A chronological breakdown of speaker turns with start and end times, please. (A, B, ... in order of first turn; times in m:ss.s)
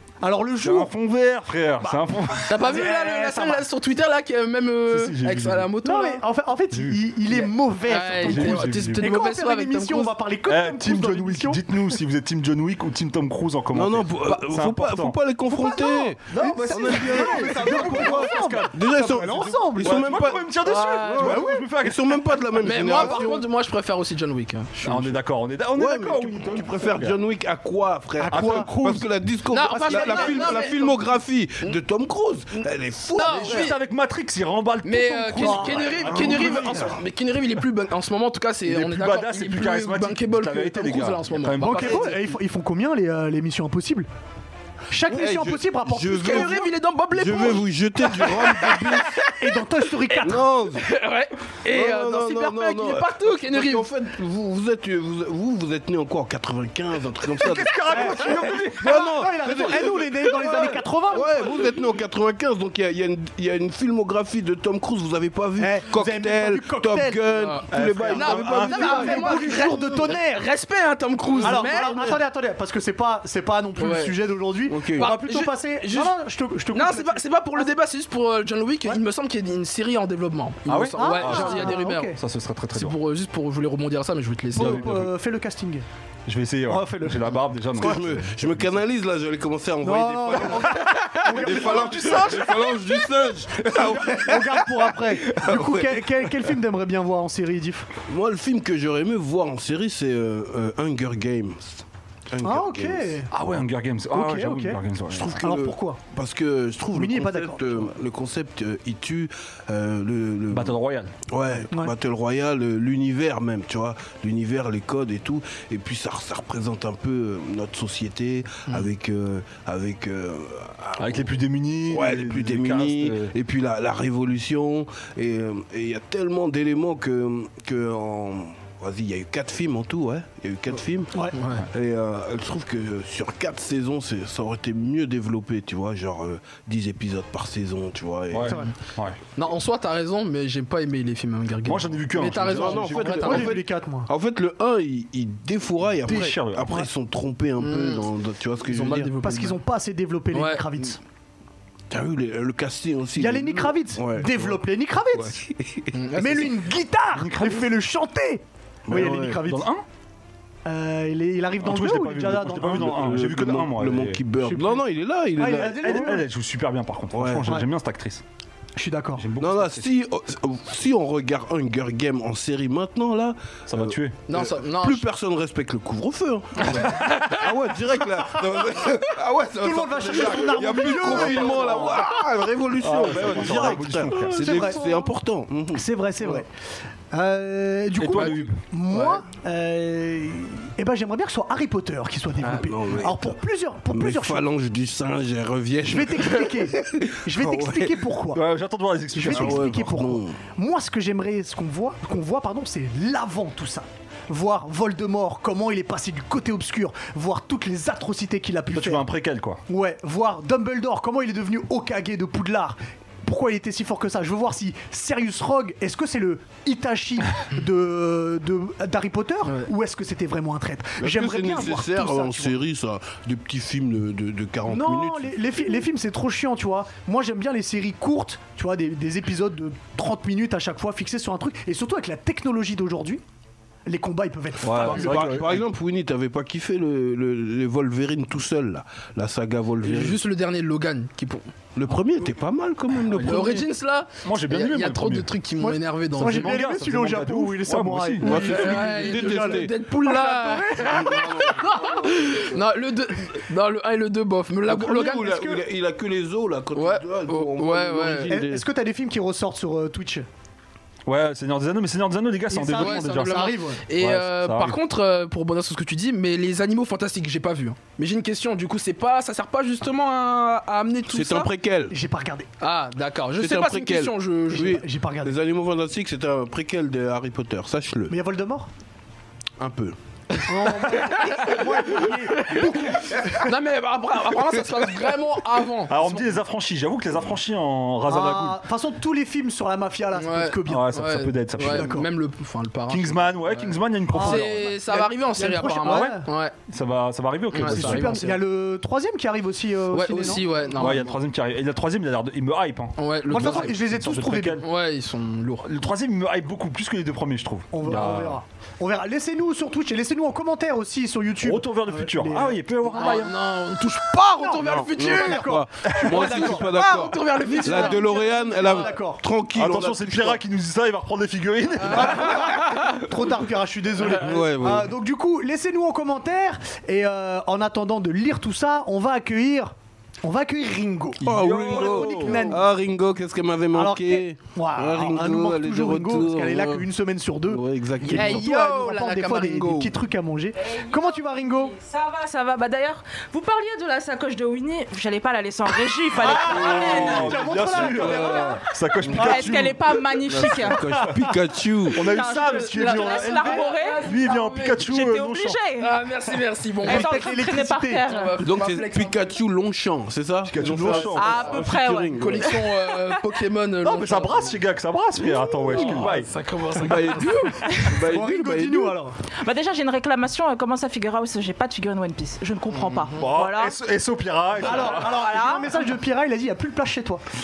0:00.2-0:00.9 A
0:00.6-0:02.8 B
0:01.8-0:03.7 A
0:02.5-0:06.2 C
0:04.9-0:05.7 B
0:05.8-0:11.6 A
0:06.7-0:07.0 B
0:07.3-0:10.2 C
0:08.0-0:09.2 B
0:10.5-0:15.2 B
0:13.7-0:20.4 D
0:15.5-0:20.2 A
0:16.3-0:18.7 B
0:19.8-0:22.2 B
0:20.6-0:21.4 C
0:21.1-0:23.4 D
0:21.2-0:21.7 A
0:22.6-0:25.1 C
0:24.8-0:27.2 B
0:25.8-0:33.7 D
0:28.2-0:28.7 A
0:28.3-0:29.1 B
0:29.5-0:31.1 C
0:29.7-0:30.8 A
0:33.1-0:33.8 C
0:33.3-0:36.9 B
0:34.8-0:42.2 C
0:35.4-0:36.8 A
0:36.0-0:36.9 D
0:38.6-0:42.2 B
0:41.6-0:44.1 A
0:44.9-0:46.6 A
0:45.1-0:49.2 D
0:46.1-0:53.9 C
0:49.4-0:50.5 A
0:50.2-0:50.9 D
0:51.7-1:09.8 D
0:57.4-0:59.2 B
0:57.6-1:01.6 A
1:05.6-1:07.2 A
1:07.4-1:12.2 C
1:07.7-1:09.4 B
1:08.6-1:10.5 A
1:11.4-1:12.1 D
1:11.4-1:17.7 A
1:13.8-1:14.2 C
1:14.7-1:15.1 D
1:15.0-1:16.2 C
1:16.7-1:22.1 C
1:20.7-1:23.0 B
1:21.0-1:22.2 A
1:22.7-1:25.0 C
1:24.5-1:25.9 A
1:24.6-1:25.0 B
1:26.3-1:28.7 B
1:26.7-1:27.9 A
1:27.8-1:36.3 D
1:29.8-1:32.5 A
1:30.8-1:32.9 B
1:33.7-1:37.9 A
1:38.1-1:43.1 D
1:42.4-1:43.3 A
1:43.3-1:45.4 B
1:44.1-1:44.8 A
1:45.1-1:50.7 D
1:45.4-1:46.0 A
1:46.9-1:47.9 A
1:50.5-1:51.1 B
1:51.3-2:01.3 D
2:01.0-2:03.3 B
2:01.9-2:18.6 D
2:11.3-2:11.6 C
2:18.3-2:19.2 B
2:18.5-2:18.7 A
2:19.4-2:23.6 C
2:21.6-2:23.4 B
2:22.5-2:29.1 D
2:23.2-2:24.1 A
2:26.0-2:26.9 B
2:27.6-2:28.1 C
2:28.6-2:29.6 C
2:29.2-2:31.0 A
2:30.3-2:30.7 C
2:31.9-2:34.6 D
2:33.2-2:35.4 A
2:35.2-2:36.5 D
2:35.9-2:36.5 C
2:36.2-2:39.7 A
2:37.1-2:37.7 B
2:38.9-2:39.4 D
2:39.0-2:39.8 B
2:40.6-2:43.0 A
2:41.6-2:44.2 B
2:42.7-2:46.1 D
2:44.4-2:44.8 A
2:45.4-2:46.2 A
2:45.6-2:48.2 B
2:47.1-2:47.5 D
2:48.8-2:49.3 A
2:49.2-2:49.9 B
2:49.4-3:06.4 D
2:53.7-2:54.2 B
2:54.3-2:55.0 C
2:56.6-2:57.5 C
2:59.6-3:02.1 A
3:01.1-3:01.8 B
3:02.8-3:04.7 B
3:03.2-3:05.1 A
3:05.7-3:06.5 A
3:07.1-3:14.5 A
3:08.0-3:08.6 B
3:12.4-3:13.4 D
3:13.9-3:17.9 D
3:15.9-3:18.4 A
3:18.3-3:19.9 B
3:19.2-3:29.1 A
3:19.2-3:20.5 D
3:28.7-3:29.6 B
3:29.7-3:42.6 A
3:41.0-3:45.3 D
3:44.7-3:53.2 A
3:53.9-3:55.4 A
3:54.6-3:55.6 B
3:54.8-4:00.2 D
3:59.8-4:01.5 C
4:01.8-4:03.7 D
4:03.1-4:06.6 C
4:04.2-4:05.3 B
4:05.6-4:11.2 A
4:06.2-4:08.4 B
4:08.2-4:09.7 D
4:08.4-4:15.3 C
4:10.8-4:12.4 D
4:14.7-4:18.6 D
4:15.1-4:15.6 A
4:16.8-4:18.4 C
4:18.3-4:20.3 A
4:21.1-4:24.8 B
4:22.5-4:23.8 A
4:22.8-4:31.5 C
4:31.1-4:31.9 D
4:31.9-4:32.5 A
4:32.6-4:34.8 C
4:33.4-4:38.1 D
4:34.5-4:35.4 A
4:38.1-4:38.7 A
4:39.6-4:40.0 D
4:40.4-4:46.3 C
4:40.5-4:43.5 A
4:45.9-4:48.6 B
4:48.1-4:51.0 A
4:50.2-4:56.5 C
4:50.7-4:52.0 B
4:51.6-4:52.1 A
4:52.9-4:54.8 B
4:54.1-4:56.3 A
4:55.8-4:58.3 B
4:57.5-4:58.4 C
4:57.6-5:00.5 A
4:59.9-5:01.1 C
5:00.7-5:04.7 B
5:03.0-5:03.8 C
5:03.3-5:04.6 A
5:04.6-5:05.7 C
5:05.6-5:08.4 B
5:07.7-5:13.2 A
5:11.4-5:13.3 B
5:12.9-5:18.9 C
5:14.4-5:19.2 A
5:14.6-5:20.4 D
5:19.5-5:22.4 B
5:21.9-5:32.7 A
5:24.2-5:24.9 D
5:31.2-5:36.9 D
5:31.2-5:32.6 B
5:33.7-5:41.7 A
5:37.5-5:38.5 D
5:38.0-5:39.9 C
5:40.6-5:48.6 E
5:46.2-5:49.7 A
5:46.2-5:49.8 B
5:46.3-5:47.1 D
5:47.8-5:48.4 D
5:49.2-5:50.8 E
5:50.2-5:52.1 D
5:50.9-5:51.3 A
5:51.9-5:55.6 B
5:52.0-5:54.1 E
5:52.8-5:54.9 C
5:54.6-5:55.9 E
5:55.8-5:57.2 C
5:56.8-5:58.0 A
5:56.8-5:58.4 E
5:58.1-5:59.2 C
5:58.4-6:02.6 D
6:00.5-6:01.7 B
6:01.1-6:03.2 E
6:02.1-6:04.5 C
6:03.8-6:06.3 B
6:05.7-6:07.7 C
6:06.7-6:09.0 D
6:08.0-6:09.2 A
6:09.4-6:13.7 E
6:12.9-6:13.2 C
6:13.2-6:15.2 B
6:14.6-6:17.2 A
6:14.9-6:15.9 E